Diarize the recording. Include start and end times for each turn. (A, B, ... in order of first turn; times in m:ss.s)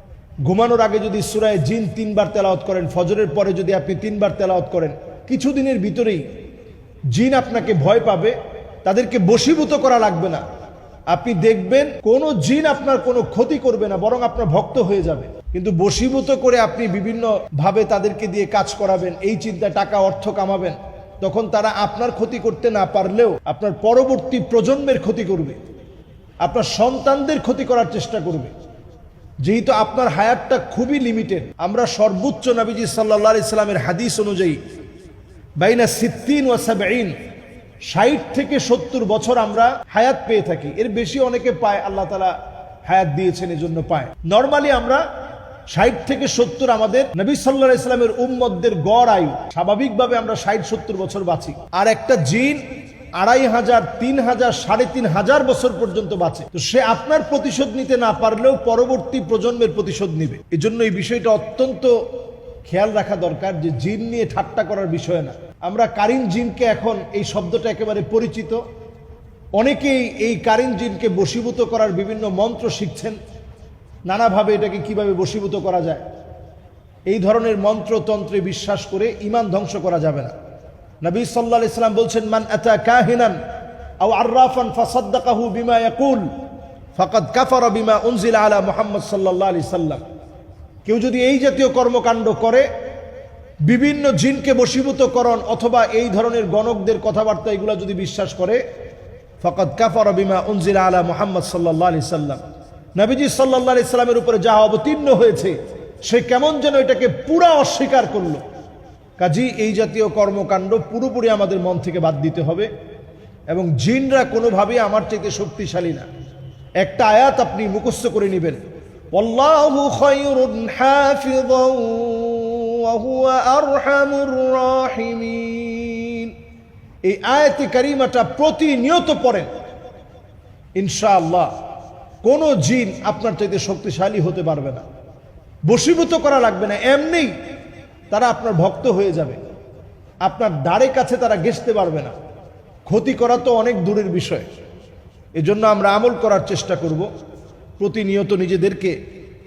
0:00.4-0:06.2 A
0:07.1-0:10.4 A
0:11.1-0:25.6 A
0:26.4-0:28.5 A
0:29.4-0:34.6 A
0:35.6-0:37.1 A
0:37.9-0:42.3 A
0:42.8-0:45.0 A
0:45.7-0:52.6 A
0:53.2-1:01.9 A
1:02.6-1:08.6 A
1:09.6-1:13.2 A
1:14.0-1:16.0 A
1:17.1-1:20.3 A
1:21.0-1:23.4 A
1:24.0-1:26.2 A
1:26.9-1:30.0 A
1:30.8-1:32.6 A
1:33.6-1:38.6 A
1:39.4-1:42.4 A
1:43.0-1:45.5 A
1:46.0-1:48.4 A
1:49.2-1:52.7 A
1:53.5-1:56.1 A
1:56.8-1:58.6 A
1:59.1-2:06.3 A
2:07.0-2:09.5 A
2:10.8-2:11.5 A
2:12.2-2:14.8 A
2:15.7-2:17.3 A
2:18.1-2:19.4 A
2:20.2-2:22.1 A
2:22.9-2:24.4 A
2:25.4-2:27.1 A
2:27.8-2:28.9 A